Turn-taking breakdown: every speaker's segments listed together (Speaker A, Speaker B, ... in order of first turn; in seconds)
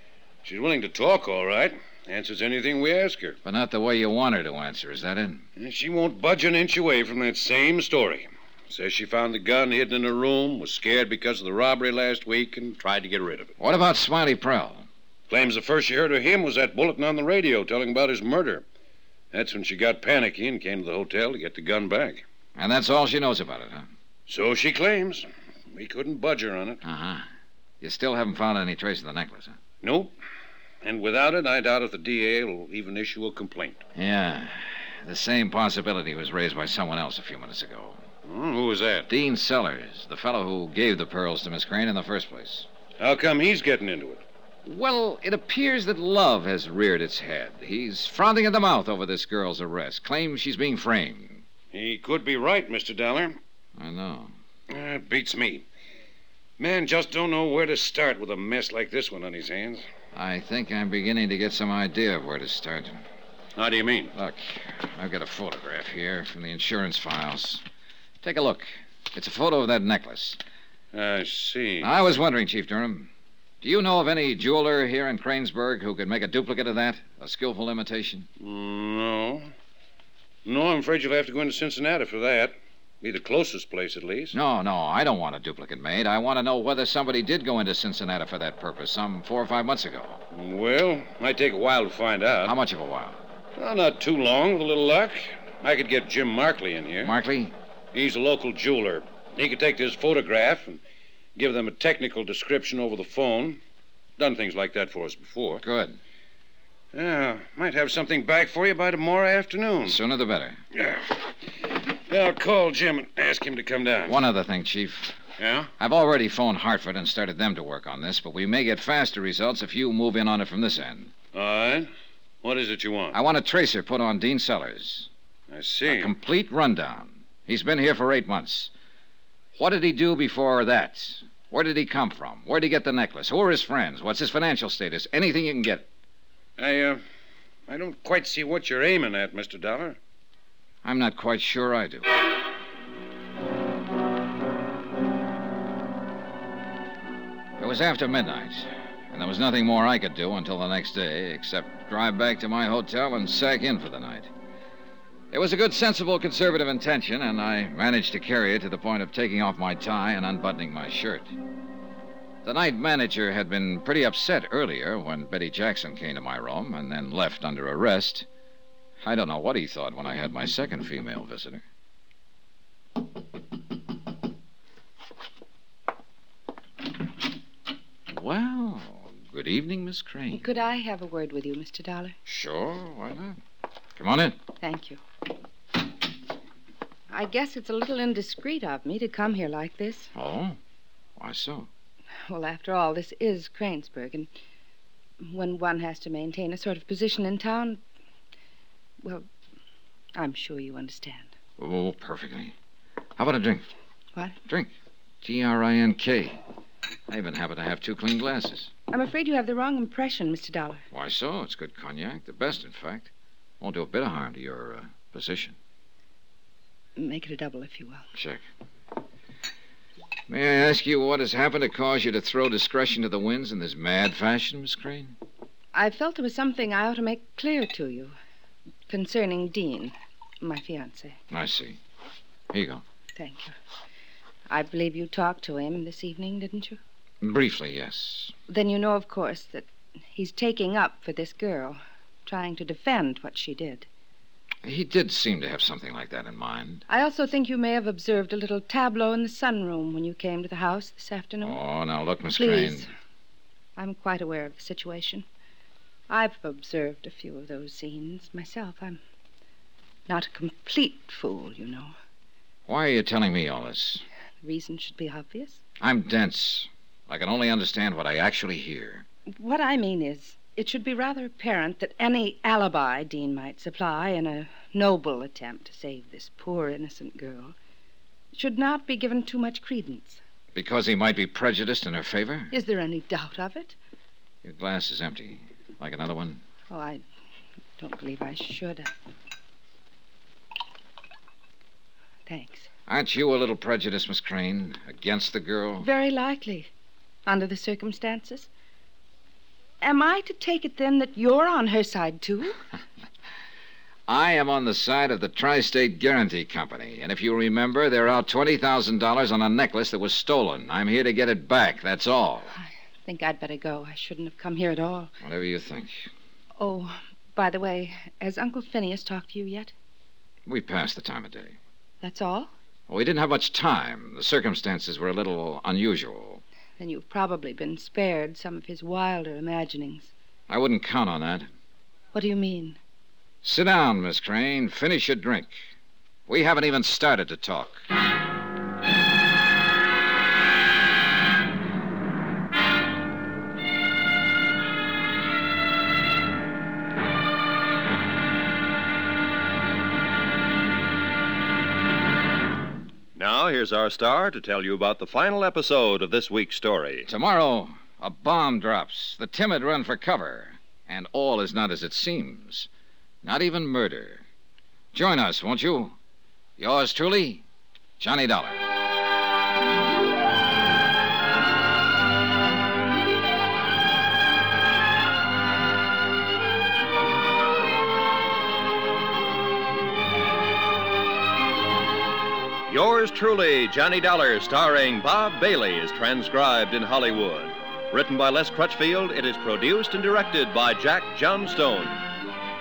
Speaker A: 0.5-3.4, 5.6-13.5, 15.3-18.6, 19.3-22.2, 24.3-26.8, 29.8-30.1, 30.8-33.8, 38.2-39.1, 43.0-44.2, 51.7-53.4, 54.7-55.6, 56.6-59.8, 63.6-64.1, 70.9-71.9, 78.4-79.5, 80.5-84.3, 90.3-92.6, 93.6-97.1, 97.9-100.8, 101.4-103.6, 104.2-105.6, 106.9-110.0, 110.7-114.2, 115.4-115.7, 121.3-121.9, 122.4-123.2, 125.5-126.1, 136.6-137.0, 137.7-140.0
Speaker B: 3.4-5.4, 13.6-14.9, 22.6-23.9, 26.8-27.2, 27.8-29.6, 34.0-38.0, 39.1-42.7, 44.6-51.4, 53.8-54.3, 60.1-63.0, 64.2-67.6, 68.2-70.4, 71.8-73.1, 73.6-78.3, 84.3-90.2, 92.4-93.2, 97.0-97.6, 105.6-106.0, 109.8-110.6, 114.1-115.2, 115.8-121.1, 123.1-125.1, 125.9-128.7, 129.6-135.9, 140.8-142.1, 147.6-154.3, 155.3-161.3, 162.4-168.3, 169.0-171.6, 178.1-180.4, 182.3-183.4, 184.0-184.4, 190.2-190.6, 191.2-191.7, 201.6-202.5, 203.2-203.7, 205.2-206.4, 207.1-208.7, 210.9-215.6, 218.2-218.4, 220.3-225.2, 231.3-231.8, 232.5-232.8, 237.2-238.3, 244.7-246.8, 251.4-252.9, 262.7-264.0, 265.8-269.1, 280.6-282.5, 284.4-286.4, 292.9-295.9, 304.1-312.5, 315.2-316.1, 320.5-321.6, 322.9-326.4, 330.5-331.5, 333.4-335.7, 336.3-337.8, 357.1-362.7, 363.2-364.2, 364.9-366.0, 366.6-367.4, 368.0-368.6
Speaker C: 12.8-13.5, 353.1-357.1, 382.7-392.0
Speaker D: 180.3-182.2, 184.6-185.0, 187.1-190.1, 192.3-194.3, 195.2-197.8, 200.2-201.3, 208.9-210.8, 217.0-218.0, 225.7-228.1, 228.9-231.2, 233.2-233.5, 234.5-236.8, 238.5-243.9, 246.9-251.6, 252.3-252.9, 253.8-255.3, 256.1-259.0, 260.1-261.9, 264.4-265.6, 269.3-277.6, 278.3-280.2, 282.5-283.8, 286.7-287.0, 287.8-288.9, 292.3-292.7, 295.8-296.7, 297.3-298.5, 299.8-302.6, 312.6-315.1, 316.6-319.7, 322.0-322.5, 326.8-330.1, 332.1-332.8